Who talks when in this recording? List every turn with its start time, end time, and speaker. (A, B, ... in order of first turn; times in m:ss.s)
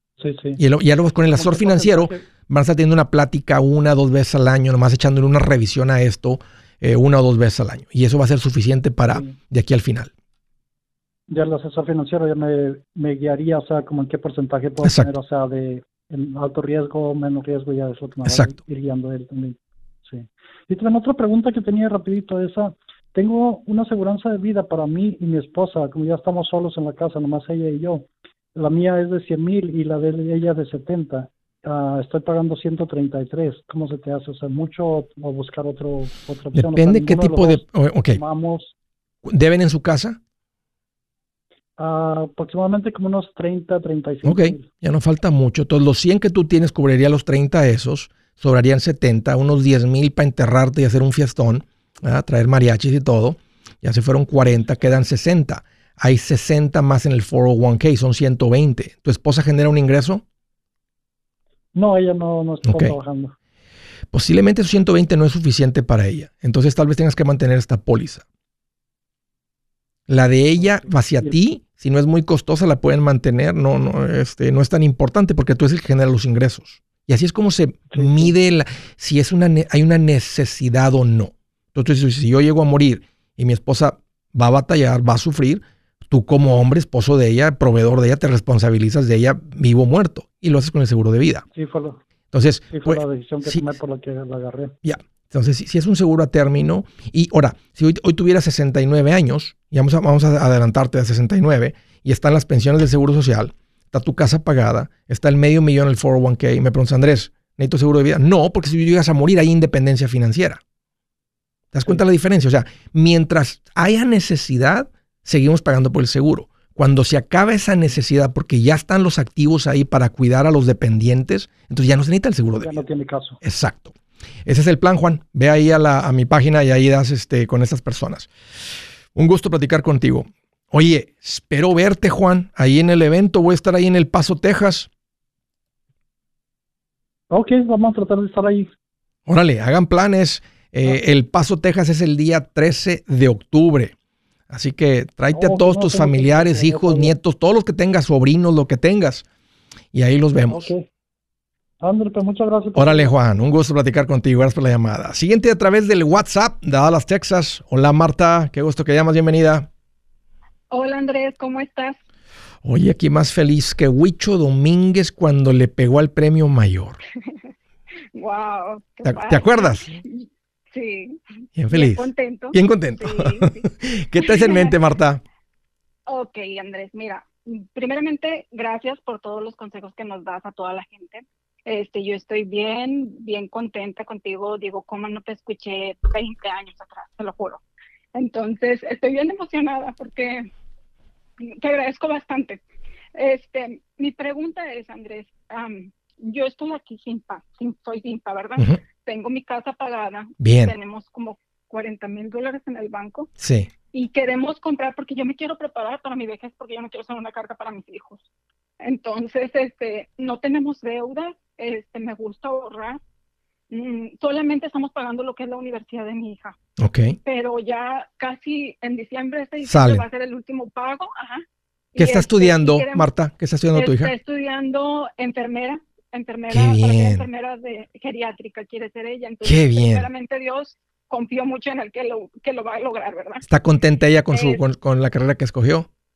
0:00.2-0:00.6 A
0:00.6-0:10.1 B
0:01.1-0:02.2 A
0:11.3-0:38.7 A
0:14.8-0:15.1 B
0:18.2-0:18.6 B
0:36.5-0:38.2 B
0:39.2-0:40.2 B
0:41.8-0:44.7 A
0:44.2-1:00.2 B
1:01.7-1:03.3 A
1:02.6-1:02.9 B
1:04.1-1:08.2 B
1:10.1-1:31.4 B
1:10.6-1:11.4 A
1:17.9-1:18.3 A
1:31.5-1:32.0 A
1:32.3-1:33.7 B
1:32.7-1:34.8 A
1:34.8-1:50.6 B
1:51.7-2:02.8 B
2:02.6-2:03.4 A
2:03.4-2:03.9 B
2:04.5-2:08.3 B
2:09.1-2:14.9 B
2:17.3-2:18.7 A
2:19.3-2:23.9 B
2:24.5-2:29.2 B
2:25.3-2:27.1 A
2:29.9-2:30.7 B
2:30.4-2:30.9 A
2:31.8-2:33.1 A
2:32.7-2:39.7 B
2:40.7-2:42.0 C
2:42.6-2:47.0 B
2:48.1-2:53.7 C
2:49.0-2:50.0 B
2:51.6-2:55.2 B
2:54.2-2:54.7 C
2:56.1-3:07.6 C
3:08.1-3:10.5 C
3:11.5-3:12.6 C
3:13.2-3:23.3 C
3:20.4-3:20.7 B
3:23.4-3:23.7 B
3:23.9-3:28.2 C
3:28.8-3:33.0 C
3:33.7-3:36.6 C
3:36.8-3:37.2 B
3:37.2-3:43.1 C
3:39.6-3:40.0 B
3:42.0-3:44.1 B
3:43.7-3:53.4 C
3:46.5-3:47.3 B
3:49.4-3:50.1 B
3:53.4-3:55.9 B
3:54.3-3:54.6 C